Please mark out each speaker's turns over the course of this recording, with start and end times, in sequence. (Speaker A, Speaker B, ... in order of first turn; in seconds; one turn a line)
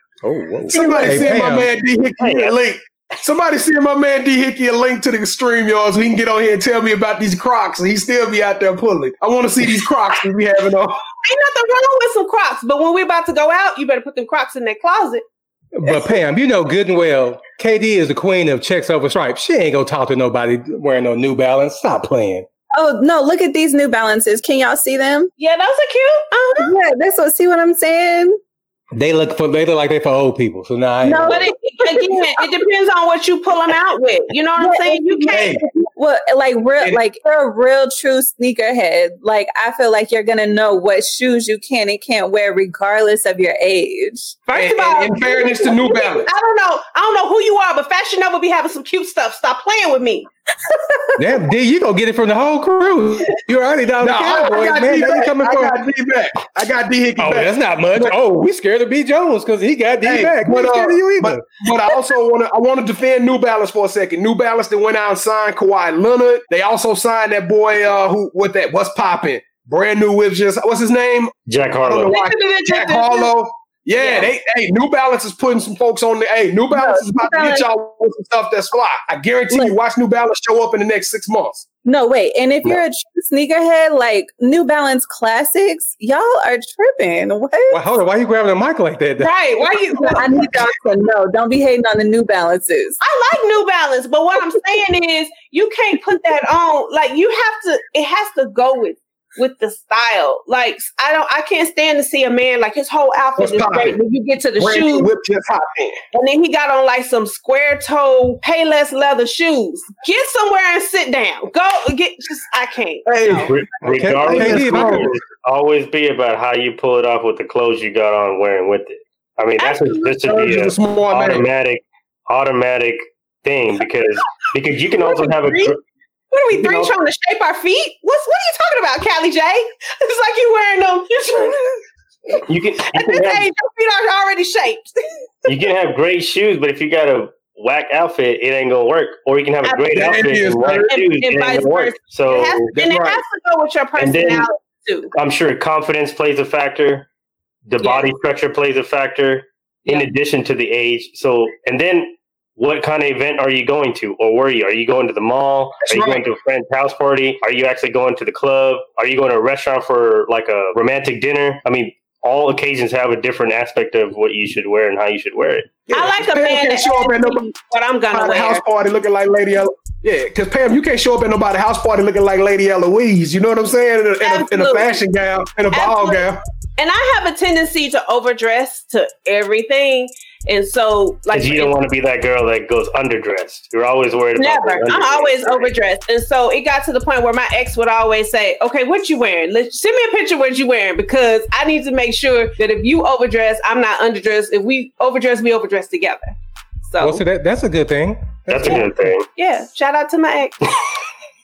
Speaker A: 0.2-1.7
Speaker B: 0.7-11.0
Speaker C: 2.2-2.5
Speaker D: 11.2-15.2
Speaker A: 15.8-22.5
Speaker E: 22.7-25.3
Speaker D: 25.4-26.7
Speaker E: 26.6-28.4
Speaker A: 28.9-31.5
Speaker E: 31.1-32.1
Speaker D: 31.1-35.6
Speaker E: 34.6-44.4
Speaker B: 35.3-35.6
Speaker D: 44.5-50.3
Speaker B: 44.5-46.3
Speaker A: 51.2-55.8
Speaker B: 54.0-58.2
Speaker A: 57.2-61.5
Speaker B: 60.0-81.7
Speaker C: 71.5-72.2
Speaker D: 72.1-73.3
Speaker D: 74.0-74.3
Speaker E: 76.7-77.7
Speaker E: 79.5-79.8
Speaker E: 81.8-87.8
Speaker A: 87.7-89.4
Speaker D: 89.2-90.4
Speaker E: 90.2-93.0
Speaker D: 93.0-105.1
Speaker B: 103.4-104.0
Speaker B: 104.6-106.0
Speaker D: 106.1-113.1
Speaker B: 113.1-113.6
Speaker C: 113.3-125.8
Speaker A: 113.9-115.2
Speaker B: 114.2-115.1
Speaker D: 119.6-120.1
Speaker B: 120.2-121.5
Speaker D: 125.0-125.8
Speaker D: 126.3-135.5
Speaker C: 132.4-133.5
Speaker C: 135.5-142.7
Speaker D: 139.7-139.9
Speaker B: 139.9-140.9
Speaker D: 140.9-145.1
Speaker B: 142.7-143.2
Speaker C: 144.0-144.5
Speaker C: 145.1-147.1
Speaker C: 147.7-165.7
Speaker D: 147.8-148.1
Speaker B: 155.8-156.2
Speaker B: 165.9-167.5
Speaker D: 165.9-168.6
Speaker B: 168.1-176.4
Speaker D: 174.2-175.0
Speaker D: 175.7-181.8
Speaker C: 181.3-185.7
Speaker D: 184.4-197.2
Speaker A: 197.0-199.2
Speaker C: 198.5-199.3
Speaker D: 199.4-200.7